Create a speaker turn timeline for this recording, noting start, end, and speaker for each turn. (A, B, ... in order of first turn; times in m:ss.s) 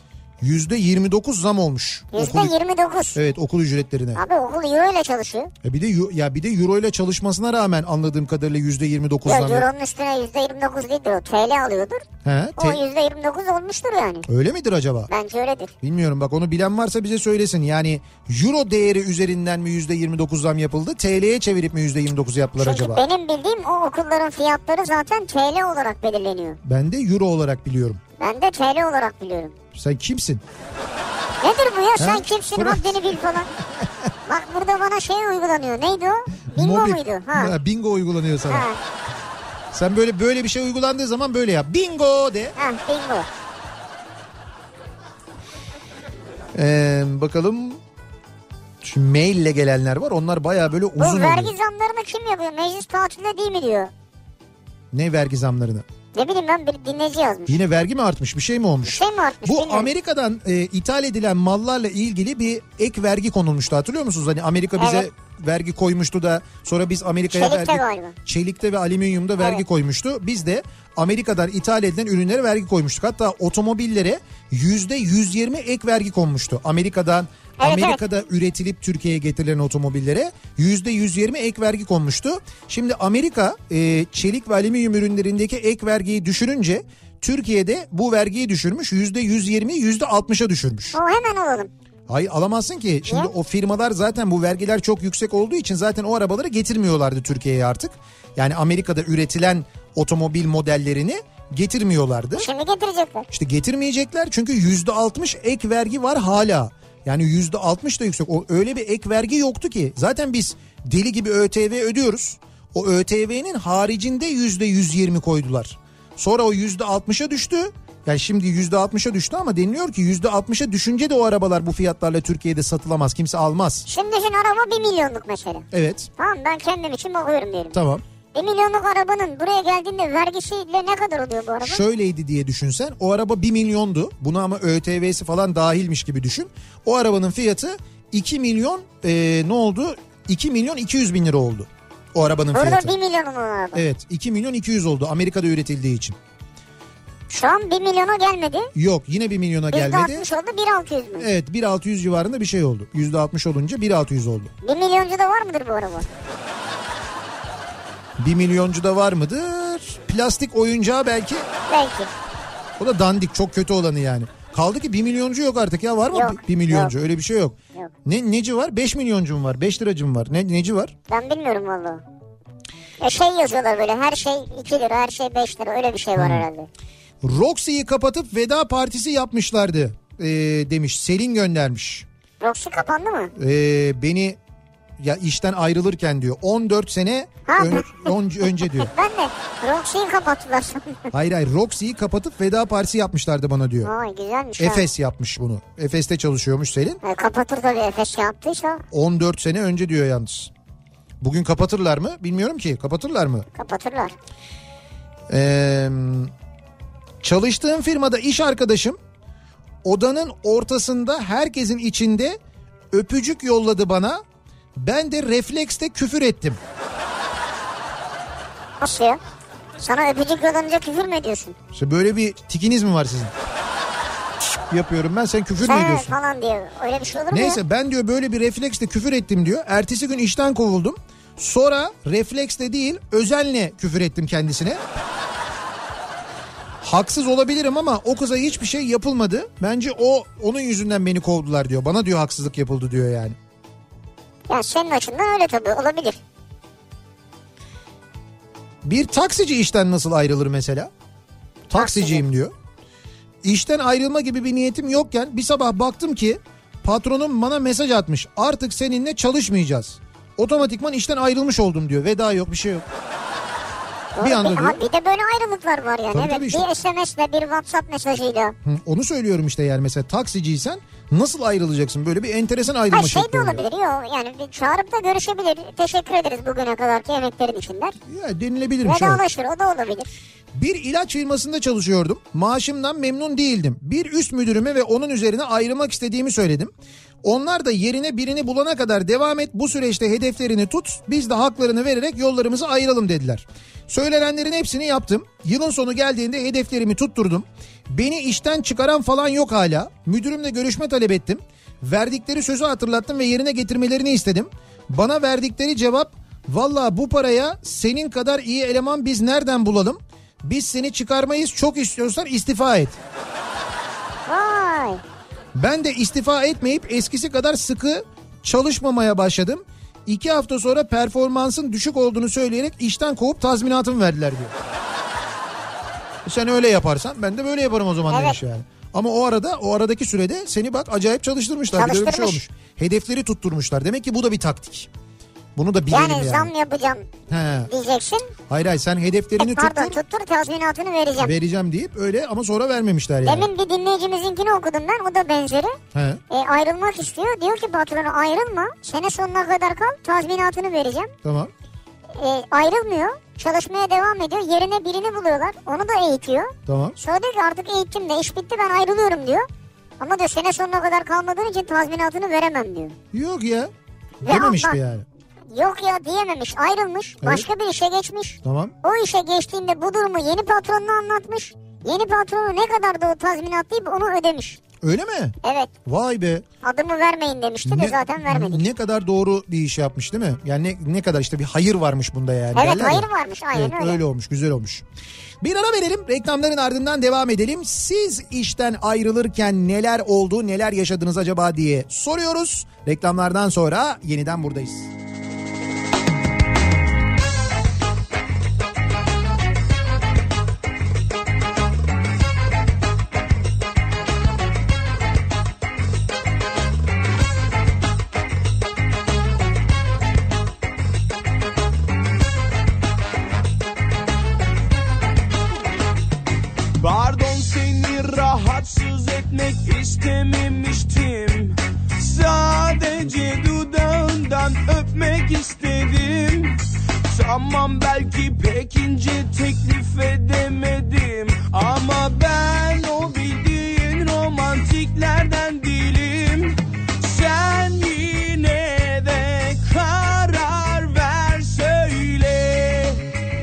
0:00.4-0:02.5 A
0:02.1-0:03.2 B
0:03.1-0:04.2 A
0:04.2-0:05.5 B
0:05.6-0:09.7 A
0:09.2-0:12.0 B
0:12.2-0:12.8 A
0:12.6-0:14.3 B
0:14.3-0:15.1 A
0:15.1-0:15.7 B
0:15.8-0:23.0 A
0:22.6-0:26.6 B
0:26.6-0:28.0 A
0:28.2-0:29.5 B
0:29.7-0:30.4 A
0:31.4-0:33.5 B
0:32.0-0:33.8 A
0:34.3-0:37.5 B
0:36.5-0:38.7 A
0:38.5-0:38.8 B
0:39.7-0:42.5 A
0:42.6-0:43.3 B
0:46.5-0:47.8 A
0:48.8-0:51.5 A
0:51.0-0:53.9 B
0:54.9-0:55.8 A
0:56.1-0:57.6 B
0:57.5-1:31.0 A
0:58.8-0:59.9 B
1:04.8-1:05.0 B
1:07.3-1:08.1 B
1:17.6-1:18.0 B
1:30.9-1:31.7 B
1:32.1-1:42.5 A
1:42.3-1:43.3 B
1:43.3-2:03.8 A
2:03.9-2:05.6 B
2:05.7-2:06.1 A
2:06.2-2:07.7 B
2:07.7-2:08.0 A
2:08.3-2:11.8 B
2:11.6-2:22.9 A
2:22.5-2:23.8 B
2:23.7-2:26.2 A
2:27.3-2:28.7 B
2:28.7-2:30.2 A
2:29.7-2:31.3 B
2:31.2-2:34.5 A
2:34.6-2:36.1 B
2:38.2-2:41.5 A
2:41.7-2:42.1 B
2:42.8-2:50.9 A
2:46.1-2:46.9 B
2:51.1-2:52.0 B
2:53.0-2:56.7 B
2:56.2-2:56.5 A
2:57.2-3:02.0 A
3:02.4-3:03.3 B
3:03.4-3:04.4 A
3:05.0-3:08.9 A
3:07.5-3:08.1 B
3:08.8-3:11.1 B
3:11.1-3:13.9 A
3:13.8-3:14.8 B
3:14.6-3:17.0 A
3:17.0-3:18.8 B
3:18.9-3:20.5 A
3:21.2-3:23.4 A
3:23.5-3:24.1 B
3:25.3-3:26.3 A
3:27.2-3:29.0 A
3:29.8-3:32.4 A
3:32.9-3:34.2 A
3:34.8-3:36.6 A
3:38.8-3:39.2 B
3:39.8-3:41.6 B
3:41.7-3:43.3 A
3:44.7-3:46.2 A
3:45.6-3:47.6 B
3:47.3-3:54.8 A
3:56.8-4:03.4 A
4:04.5-4:06.2 B
4:08.8-4:10.9 A
4:11.7-4:12.5 A
4:11.8-4:12.2 B
4:13.4-4:22.8 A
4:24.2-4:28.5 B
4:24.2-4:24.8 A
4:26.1-4:26.7 A
4:28.6-4:33.7 A
4:32.9-4:38.0 B
4:38.1-4:39.2 A
4:38.8-4:40.1 B
4:40.5-4:46.7 A
4:47.2-5:13.0 A
5:14.3-5:15.0 B
5:15.5-5:24.5 A
5:26.2-5:34.9 A
5:28.1-5:28.4 B
5:31.7-5:32.4 B
5:35.6-5:36.5 A
5:35.9-5:37.1 B
5:37.3-5:37.7 A
5:37.7-5:38.3 B
5:38.5-5:40.0 A
5:39.4-5:41.3 B
5:41.2-5:43.5 A
5:43.2-5:45.8 B
5:45.9-5:46.2 A
5:46.3-5:51.1 B
5:51.2-5:51.5 A
5:52.1-5:59.5 B
5:56.7-5:57.0 A
6:00.0-6:03.0 B
6:03.1-6:03.7 A
6:04.2-6:05.0 A
6:04.2-6:04.8 B
6:05.5-6:14.6 B
6:07.2-6:07.5 A
6:08.4-6:08.7 A
6:14.8-6:16.4 A
6:15.4-6:15.7 B
6:16.6-6:18.6 B
6:17.6-6:24.8 A
6:22.5-6:24.0 B
6:25.4-6:34.9 A
6:56.8-7:23.1 C